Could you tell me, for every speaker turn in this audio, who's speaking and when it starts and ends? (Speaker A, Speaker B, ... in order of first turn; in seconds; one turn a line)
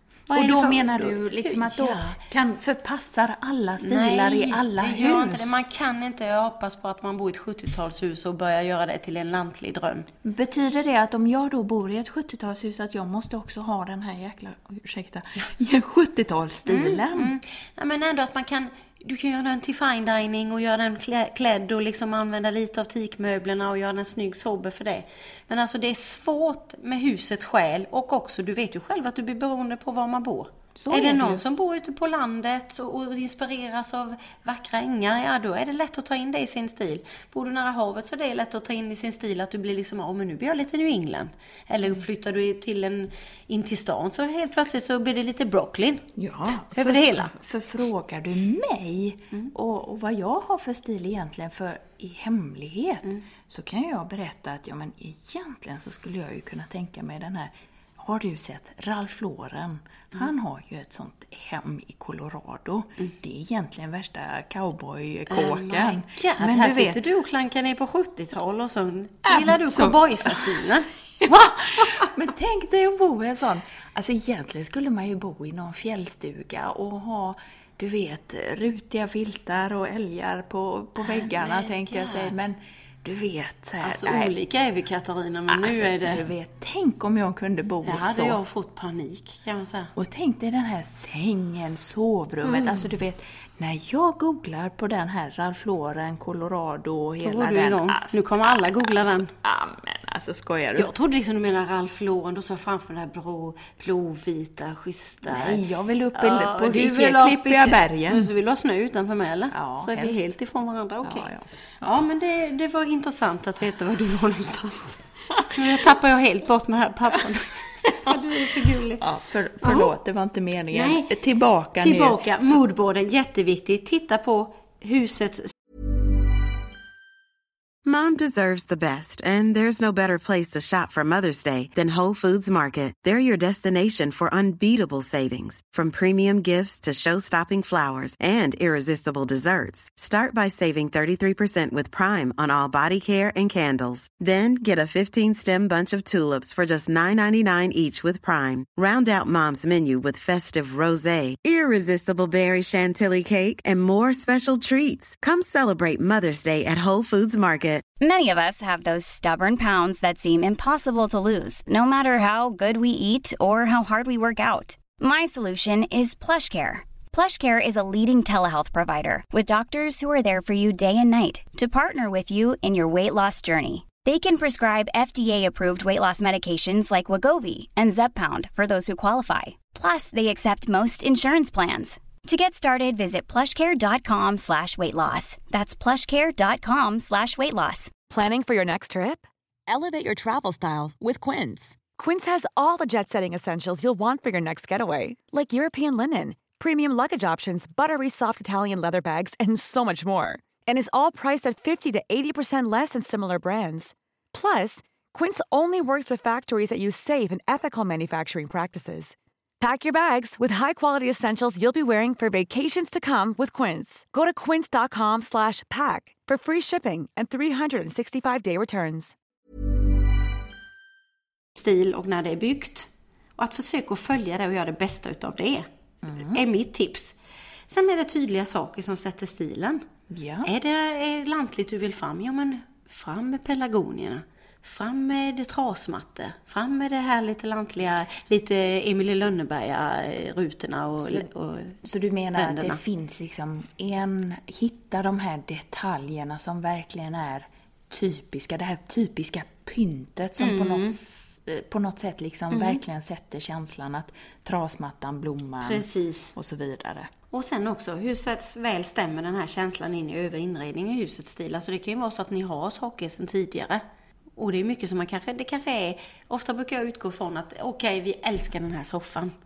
Speaker A: 0.3-2.1
Speaker B: 0.3-5.7
Speaker A: 3.8-10.1
Speaker B: 10.2-17.3
Speaker A: 16.6-47.3
Speaker B: 30.8-31.4
Speaker B: 46.1-67.0
Speaker A: 65.3-70.9
Speaker B: 69.3-70.5
Speaker B: 71.2-84.3
Speaker A: 81.0-82.3
Speaker A: 83.8-86.2
Speaker B: 85.5-88.4
Speaker A: 87.8-89.9
Speaker B: 89.9-100.9
Speaker A: 92.5-92.8
Speaker A: 97.2-99.3
Speaker A: 100.7-105.6
Speaker B: 105.2-108.3
Speaker A: 106.1-111.3
Speaker B: 109.5-110.3
Speaker B: 111.0-111.9
Speaker A: 111.8-119.0
Speaker B: 119.0-122.2
Speaker A: 119.6-119.9
Speaker A: 120.7-121.1
Speaker A: 121.8-125.5
Speaker C: 127.8-157.8
Speaker D: 158.0-187.9
Speaker E: 188.1-219.2
Speaker A: 221.6-227.2
Speaker B: 226.0-226.4
Speaker A: 227.7-229.8
Speaker B: 230.1-230.5
Speaker A: 230.4-241.8
Speaker B: 241.0-241.3
Speaker B: 241.8-257.1
Speaker A: 242.3-242.8
Speaker A: 250.4-250.9
Speaker A: 252.5-252.8
Speaker A: 255.6-256.3
Speaker A: 257.3-263.8
Speaker A: 264.4-269.3